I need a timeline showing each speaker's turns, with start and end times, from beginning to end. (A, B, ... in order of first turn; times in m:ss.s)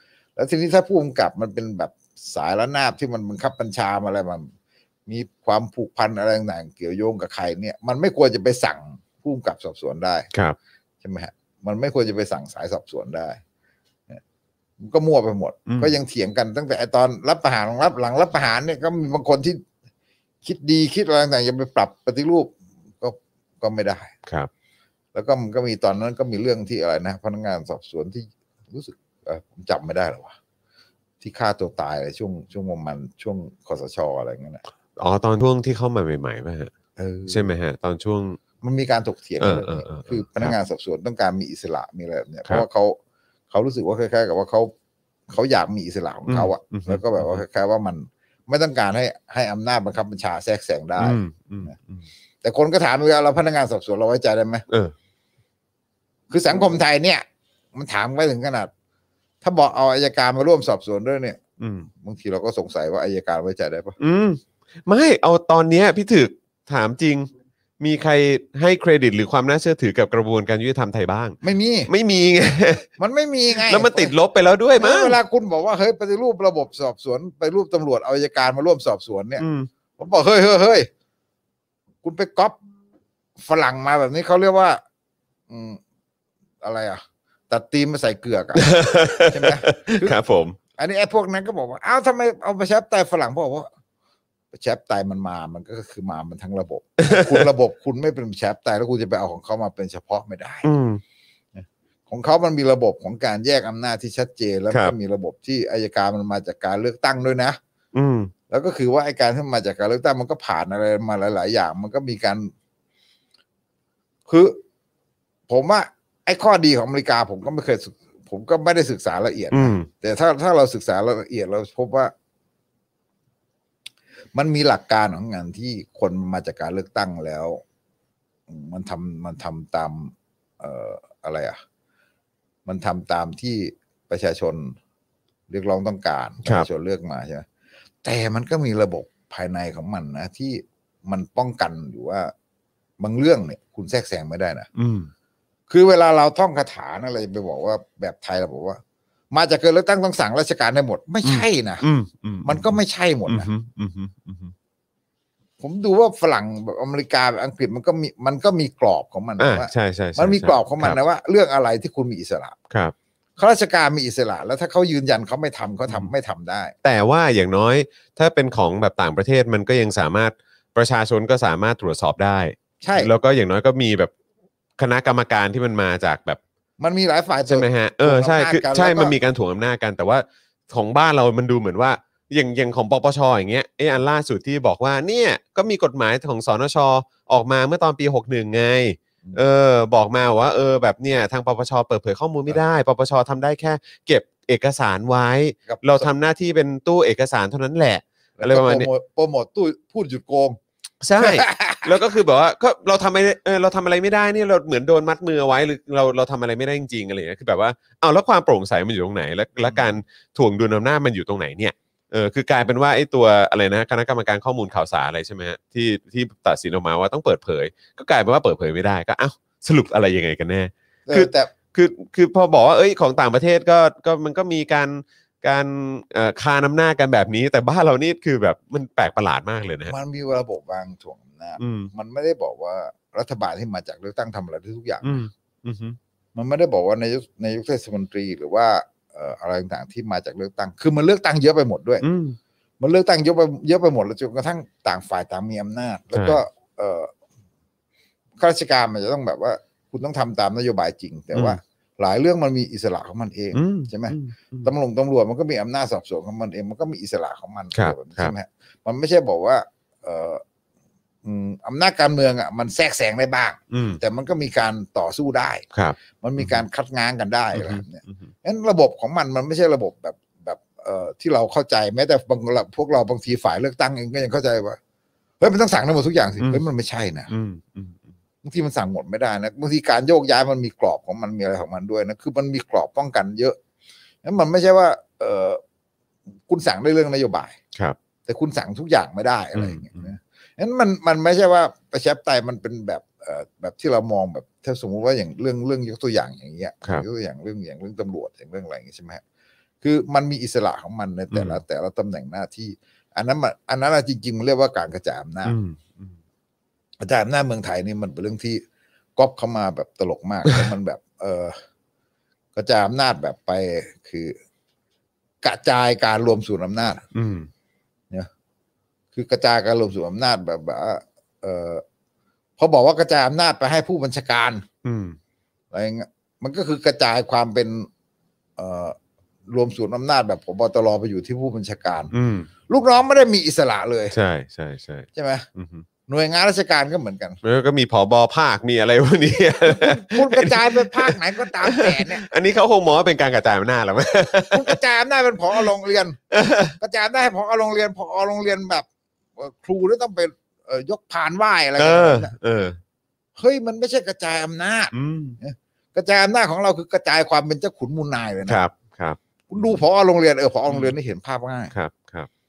0:00.4-0:04.5 A
0:05.1-0:10.3 A
0:11.0-0:13.4 A
0:14.8-0:19.6 A
0:15.7-0:15.9 B
0:20.4-0:24.2 A
0:25.1-0:30.4 A
0:31.2-0:34.6 A
0:35.0-0:36.7 B
0:37.0-0:37.5 A
0:37.3-0:38.4 B
0:38.6-0:43.0 A
0:39.4-0:40.6 B
0:43.5-0:44.7 A
0:45.3-0:51.7 A
0:46.3-0:47.4 B
0:51.0-0:52.1 B
0:52.4-0:54.6 A
0:54.7-0:55.0 B
0:56.3-0:58.7 A
0:59.4-1:04.0 A
1:01.6-1:01.9 B
1:04.0-1:12.9 B
1:11.4-1:11.9 A
1:13.0-1:14.1 A
1:13.5-1:15.2 B
1:14.8-1:19.4 A
1:19.4-1:19.7 B
1:20.0-1:20.9 A
1:22.0-1:22.6 A
1:23.4-1:24.8 A
1:25.5-1:25.8 A
1:26.6-1:30.2 A
1:28.6-1:30.6 B
1:30.8-1:33.7 A
1:34.5-1:40.7 A
1:37.0-1:37.5 B
1:40.6-1:41.0 B
1:41.6-1:47.6 A
1:47.9-1:48.3 B
1:48.5-1:52.5 A
1:54.3-1:54.6 A
1:55.5-2:02.1 A
1:59.5-1:59.9 B
2:04.4-2:07.6 A
2:08.5-2:11.6 A
2:12.7-2:14.8 A
2:15.5-2:17.5 A
2:18.0-2:22.3 A
2:23.0-2:24.7 A
2:24.8-2:25.1 B
2:25.7-2:28.8 A
2:29.3-2:31.8 A
2:31.2-2:32.8 B
2:32.4-2:33.5 A
2:33.3-2:34.5 B
2:35.6-2:42.6 A
2:39.4-2:41.0 B
2:43.4-2:46.7 A
2:46.8-2:54.1 B
2:52.8-2:53.1 A
2:54.8-2:56.4 B
2:56.8-2:59.2 A
2:57.5-3:18.9 B
3:15.7-3:16.1 A
3:18.4-3:20.6 A
3:21.0-3:49.9 B
3:21.2-3:22.0 A
3:29.7-3:30.0 A
3:41.1-3:41.5 A
3:49.9-3:55.2 A
3:51.6-3:51.9 B
3:55.0-3:56.0 B
3:56.4-4:02.0 A
4:02.0-4:02.4 B
4:02.8-4:07.1 A
4:06.1-4:06.4 B
4:08.4-4:20.4 A
4:13.5-4:14.7 B
4:17.7-4:18.3 B
4:21.2-4:25.7 A
4:23.7-4:24.0 B
4:25.7-4:26.6 B
4:26.2-4:34.8 A
4:27.5-4:28.2 B
4:35.4-4:37.3 A
4:37.3-4:38.1 B
4:38.4-4:43.6 A
4:44.2-4:45.6 A
4:46.5-4:47.6 A
4:48.3-4:59.2 A
4:49.6-4:50.1 B
4:59.8-5:05.6 A
5:01.3-5:01.6 B
5:05.4-5:06.2 B
5:07.0-5:08.6 A
5:09.2-5:11.6 A
5:12.6-5:14.4 A
5:15.4-5:17.0 A
5:17.1-5:17.5 B
5:19.1-5:21.8 A
5:22.6-5:24.6 A
5:24.8-5:25.2 B
5:25.7-5:27.9 A
5:28.6-5:29.0 A
5:29.5-5:32.1 A
5:32.1-5:32.5 B
5:32.7-5:34.2 A
5:34.1-5:35.9 B
5:35.2-5:35.5 A
5:36.1-5:37.4 A
5:37.4-5:44.8 B
5:39.7-5:42.2 A
5:44.5-5:46.2 A
5:46.3-5:46.8 B
5:46.8-5:52.3 A
5:51.8-5:52.8 B
5:53.4-5:58.6 A
5:54.9-5:55.4 B
5:58.5-5:59.8 B
5:59.5-6:01.7 A
6:00.7-6:01.0 B
6:01.7-6:02.3 B